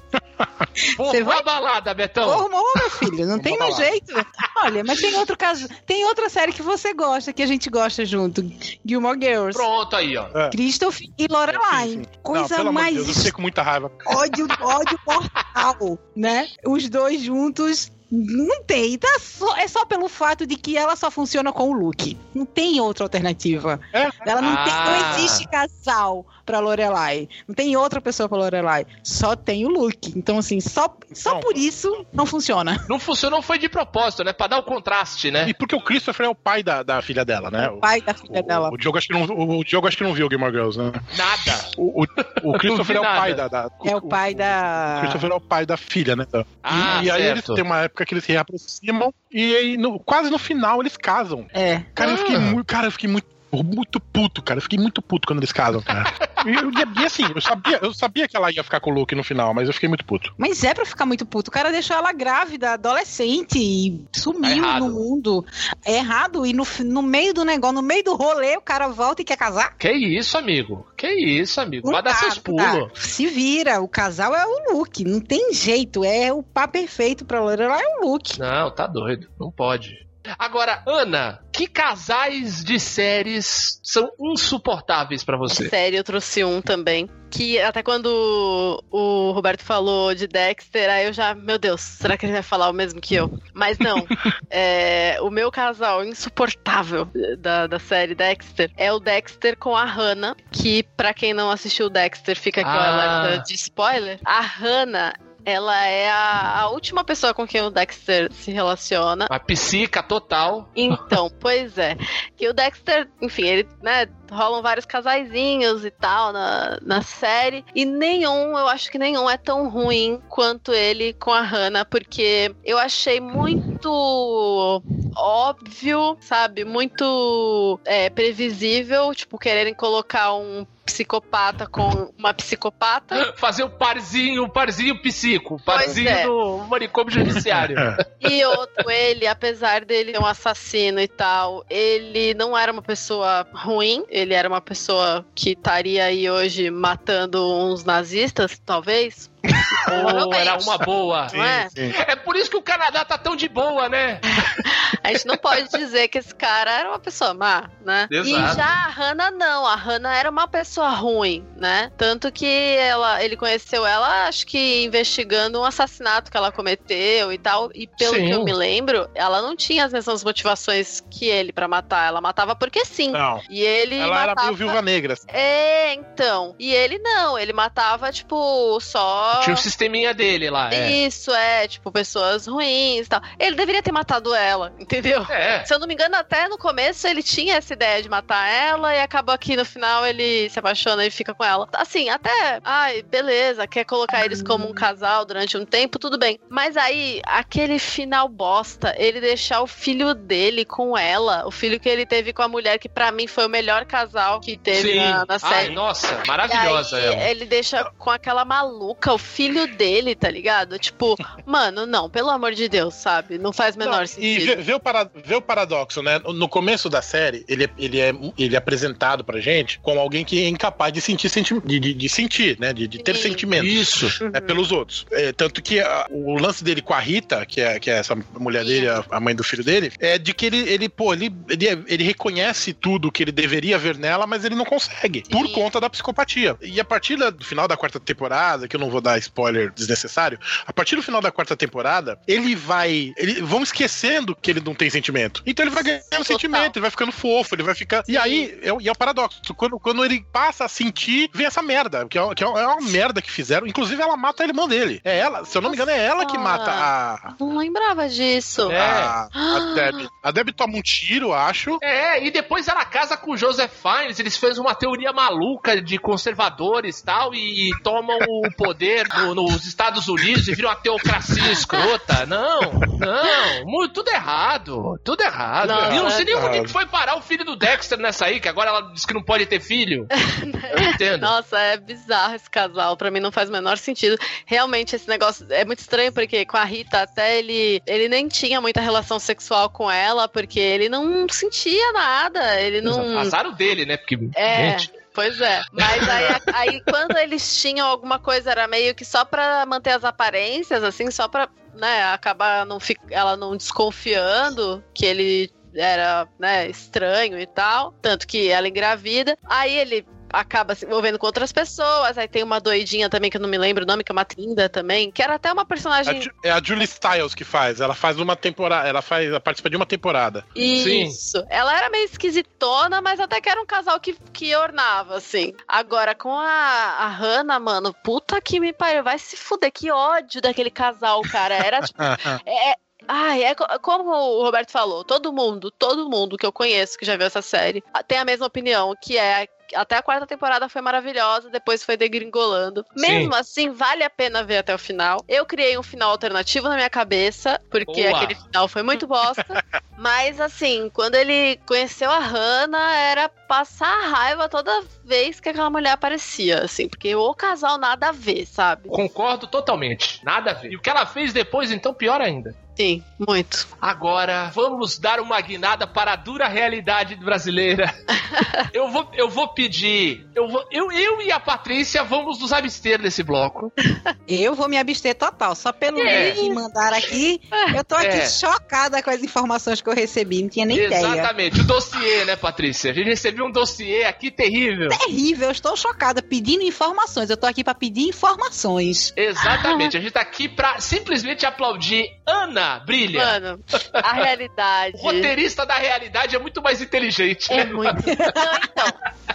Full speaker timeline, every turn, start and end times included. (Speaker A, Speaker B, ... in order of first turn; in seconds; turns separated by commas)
Speaker A: 0.4-0.7, Speaker B: 1.0-2.4, Speaker C: 1.0-1.4, Speaker C: 2.2-9.6, Speaker A: 3.3-3.9, Speaker B: 9.5-10.3, Speaker C: 10.5-13.3, Speaker A: 11.5-14.2, Speaker C: 14.1-32.8, Speaker A: 23.9-24.2, Speaker B: 24.4-25.4, Speaker A: 24.9-25.2, Speaker A: 31.2-31.6, Speaker B: 32.9-35.5, Speaker A: 35.4-60.3, Speaker C: 37.6-38.7, Speaker B: 41.1-41.7, Speaker B: 42.4-43.4, Speaker C: 43.8-45.2, Speaker B: 46.6-47.6, Speaker C: 51.5-51.9, Speaker B: 52.0-52.6, Speaker B: 56.2-56.8, Speaker C: 60.4-69.7, Speaker B: 64.4-65.0, Speaker B: 69.8-72.9, Speaker C: 71.8-78.4, Speaker B: 78.4-85.7, Speaker D: 85.5-109.3, Speaker B: 102.6-103.4, Speaker B: 109.3-111.1, Speaker D: 110.8-133.2, Speaker B: 133.1-138.0, Speaker D: 135.7-136.3, Speaker A: 137.4-138.0, Speaker D: 138.2-149.3, Speaker A: 149.8-150.1, Speaker D: 149.8-150.7, Speaker B: 149.9-151.3, Speaker A: 151.3-151.9, Speaker D: 151.3-151.7, Speaker B: 151.9-154.6, Speaker D: 154.7-179.7, Speaker B: 158.1-158.6, Speaker B: 168.0-168.5, Speaker A: 173.1-173.4, Speaker A: 174.0-175.2, Speaker B: 179.4-181.0, Speaker D: 180.7-205.8, Speaker B: 185.3-185.7, Speaker B: 204.7-207.3, Speaker D: 206.5-214.6, Speaker A: 213.8-257.3, Speaker D: 223.0-223.4, Speaker B: 223.6-224.2, Speaker D: 224.2-224.6, Speaker D: 228.6-229.0, Speaker D: 235.2-235.6, Speaker D: 246.2-246.7, Speaker D: 248.1-248.5, Speaker D: 255.6-258.8, Speaker B: 258.7-259.1, Speaker A: 258.7-261.8, Speaker D: 259.3-260.0, Speaker B: 261.8-280.1, Speaker A: 271.1-271.5, Speaker D: 275.6-276.3, Speaker A: 275.7-276.7, Speaker D: 280.3-293.3, Speaker B: 280.7-281.3, Speaker B: 292.8-294.9, Speaker D: 294.4-316.3, Speaker A: 316.1-320.4, Speaker D: 320.5-358.9, Speaker B: 320.8-321.2, Speaker A: 331.8-332.4, Speaker B: 343.0-343.3, Speaker B: 347.9-348.4, Speaker B: 358.9-362.5, Speaker D: 362.8-363.6, Speaker B: 363.8-367.9, Speaker D: 368.2-368.6, Speaker B: 368.7-373.7, Speaker C: 374.3-381.3, Speaker D: 376.0-376.5, Speaker B: 376.0-377.1, Speaker B: 378.0-378.4, Speaker B: 380.7-385.0, Speaker C: 384.9-389.1, Speaker B: 389.2-393.4, Speaker D: 389.4-389.9, Speaker D: 393.1-395.3, Speaker B: 394.9-398.0, Speaker D: 397.5-399.0, Speaker C: 397.9-398.4